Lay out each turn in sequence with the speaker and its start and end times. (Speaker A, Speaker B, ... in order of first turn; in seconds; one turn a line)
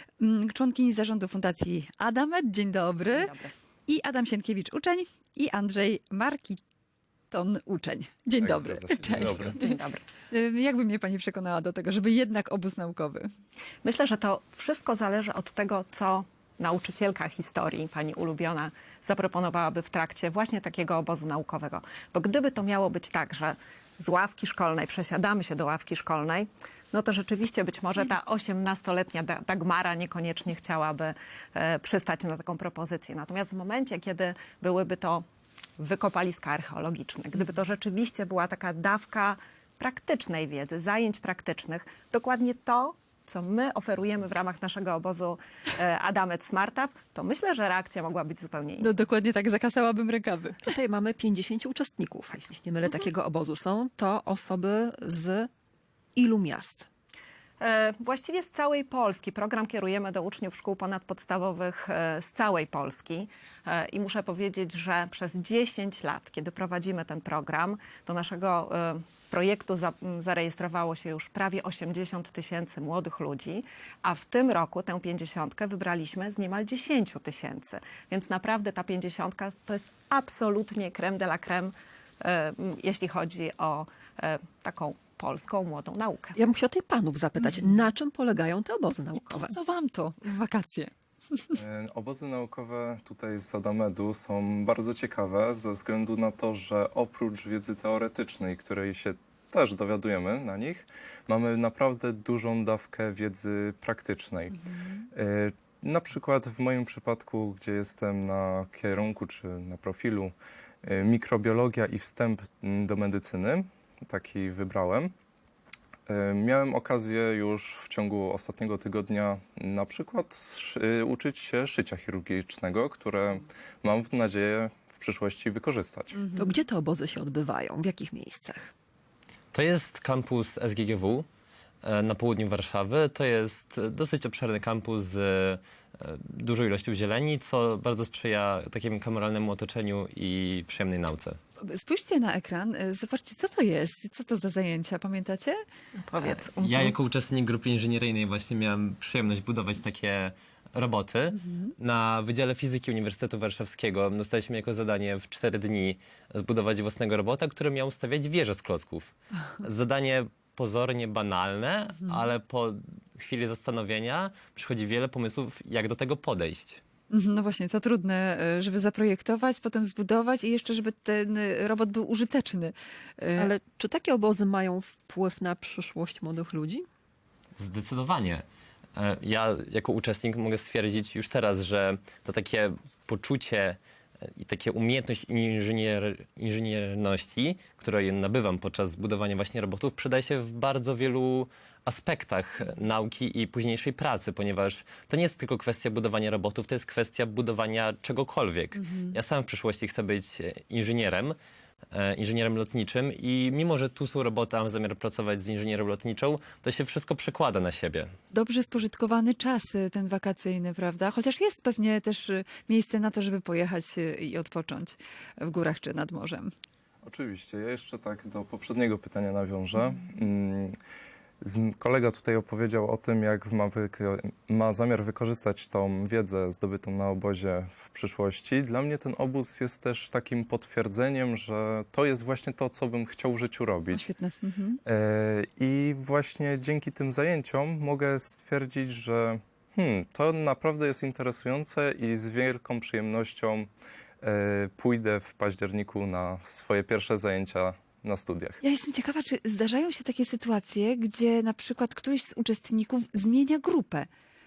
Speaker A: 0.2-3.3
Speaker B: 3.1-3.5
Speaker A: 3.9-6.6
Speaker A: 7.3-9.7
Speaker C: 8.4-9.6
Speaker B: 9.4-10.0
Speaker A: 10.3-13.3
Speaker B: 13.8-35.2
Speaker B: 35.8-48.9
Speaker A: 48.8-50.7
Speaker D: 50.6-55.5
Speaker D: 56.2-56.9
Speaker B: 57.6-86.4
Speaker D: 86.4-89.5
Speaker A: 89.2-90.9
Speaker C: 91.5-104.6
Speaker C: 105.1-115.1
Speaker C: 116.1-126.2
Speaker D: 126.3-128.7
Speaker E: 129.5-131.3
Speaker E: 131.8-141.4
Speaker A: 141.6-145.6
Speaker B: 146.2-146.9
Speaker E: 146.5-166.8
Speaker A: 167.1-173.5
Speaker D: 173.4-176.9
Speaker E: 177.6-178.4
Speaker E: 179.0-201.4
Speaker A: 198.8-199.1
Speaker E: 201.9-208.1
Speaker A: 208.3-216.5
Speaker C: 217.0-220.7
Speaker C: 221.4-234.1
Speaker A: 233.9-234.8
Speaker C: 234.8-243.7
Speaker C: 244.2-248.6
Speaker A: 248.6-254.1